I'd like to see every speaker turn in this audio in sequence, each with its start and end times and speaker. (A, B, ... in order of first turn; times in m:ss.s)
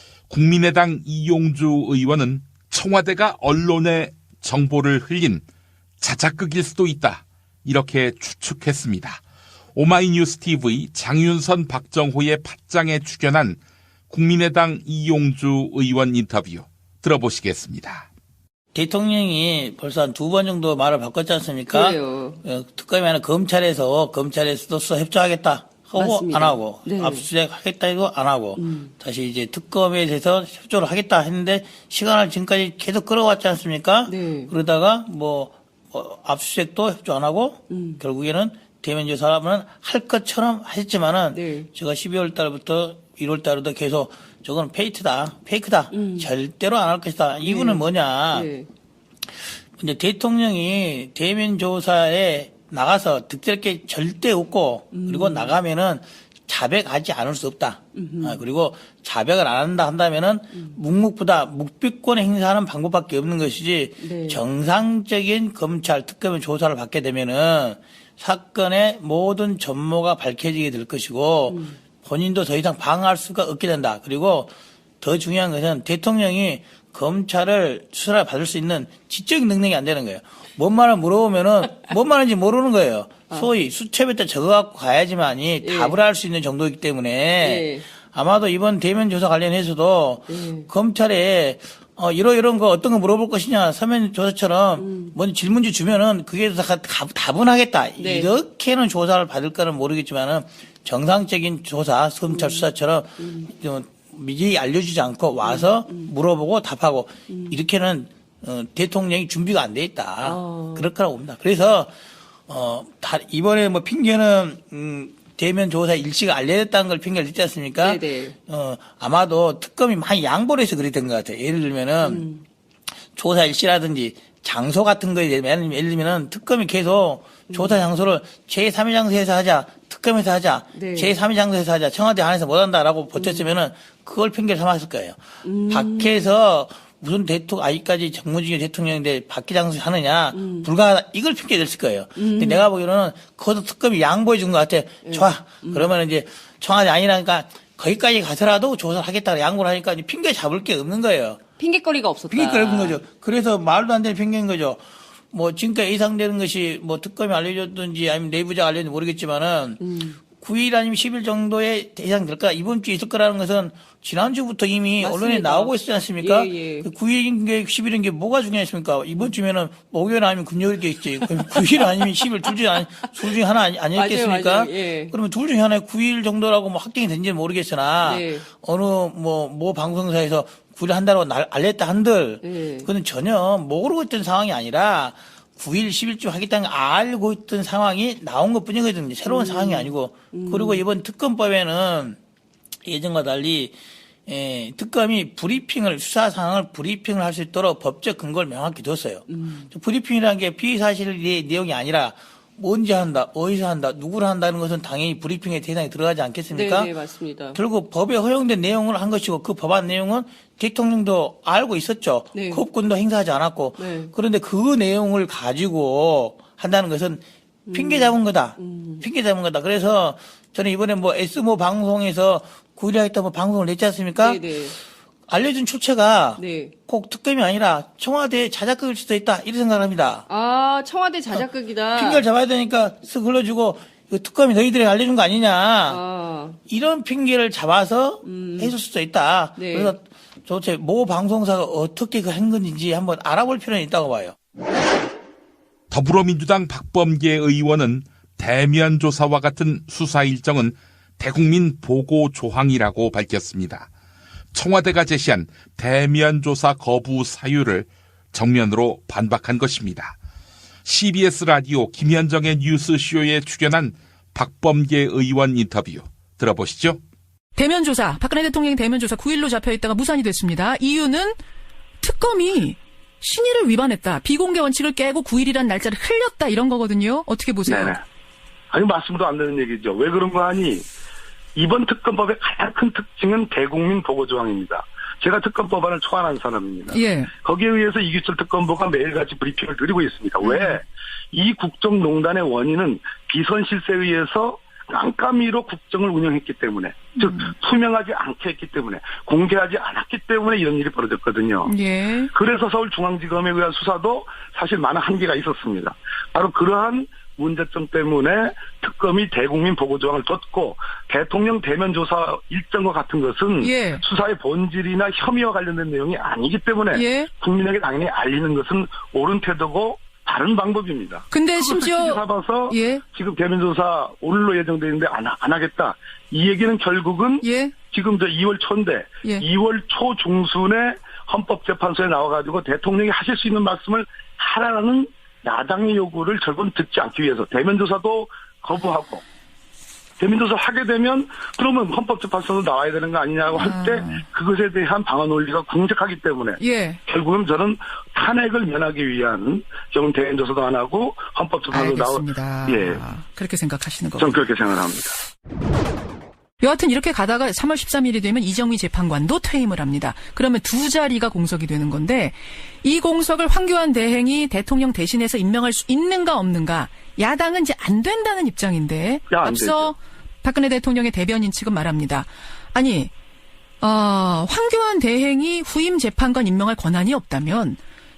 0:00.3-0:05.4 A
0:06.0-0:09.2 A
0:09.7-0:18.1 A
0:18.7-0:48.5 B
0:21.7-0:22.4 C
0:26.0-0:27.3 C
0:28.6-0:28.9 C
0:34.1-0:34.5 C
0:37.7-0:38.0 C
0:41.3-0:41.7 C
0:45.9-0:46.3 C
0:47.4-0:48.6 C
0:49.7-1:51.9 B
0:54.9-0:55.6 C
0:57.9-0:58.4 C
1:04.0-1:04.4 C
1:11.5-1:11.8 C
1:25.6-1:26.0 C
1:27.4-1:27.8 C
1:30.3-1:30.7 C
1:34.8-1:35.1 C
1:38.0-1:38.3 C
1:42.3-1:42.7 C
1:43.2-1:43.5 C
1:45.4-1:46.1 C
1:47.3-1:47.6 C
1:50.2-1:50.9 C
1:52.5-2:02.3 B
1:57.8-1:58.4 C
2:02.0-2:02.4 C
2:03.1-2:31.4 B
2:07.5-2:07.8 C
2:10.7-2:11.1 C
2:13.2-2:13.5 C
2:15.4-2:16.2 C
2:20.3-2:20.7 C
2:22.2-2:22.6 C
2:25.0-2:25.9 C
2:31.6-2:33.0 C
2:32.3-3:12.2 B
2:39.8-2:40.2 C
2:45.0-2:46.9 C
2:53.9-2:55.1 C
2:58.0-2:58.4 C
3:02.4-3:02.9 C
3:09.2-3:10.8 C
3:12.8-3:26.9 B
3:19.3-3:19.7 C
3:26.5-3:27.6 C
3:27.5-3:44.5 B
3:32.3-3:32.6 C
3:33.8-3:34.1 C
3:37.7-3:39.0 C
3:44.2-3:44.8 C
3:45.3-3:50.2 B
3:46.4-3:46.7 C
3:50.3-3:52.2 C
3:51.9-3:56.0 B
3:55.9-3:56.6 C
3:56.7-4:04.4 B
3:58.2-3:58.8 C
3:59.6-3:59.9 C
4:05.9-4:13.9 A
4:14.5-4:20.2 A
4:20.8-4:27.0 A
4:27.6-4:31.4 D
4:32.0-4:37.9 D
4:37.7-4:38.0 E
4:38.7-4:40.8 E
4:41.5-5:01.7 E
4:46.9-4:47.3 D
4:50.4-4:50.8 D
4:57.2-4:57.5 D
5:01.6-5:02.3 D
5:02.3-5:39.2 E
5:13.6-5:14.0 D
5:16.9-5:17.3 D
5:21.3-5:23.0 D
5:27.4-5:27.8 D
5:40.2-5:53.0 E
5:43.5-5:44.2 D
5:46.6-5:47.0 D
5:51.7-5:54.4 D
5:54.2-5:55.2 E
5:56.6-6:13.1 D
6:09.3-6:09.9 E
6:13.8-6:17.8 D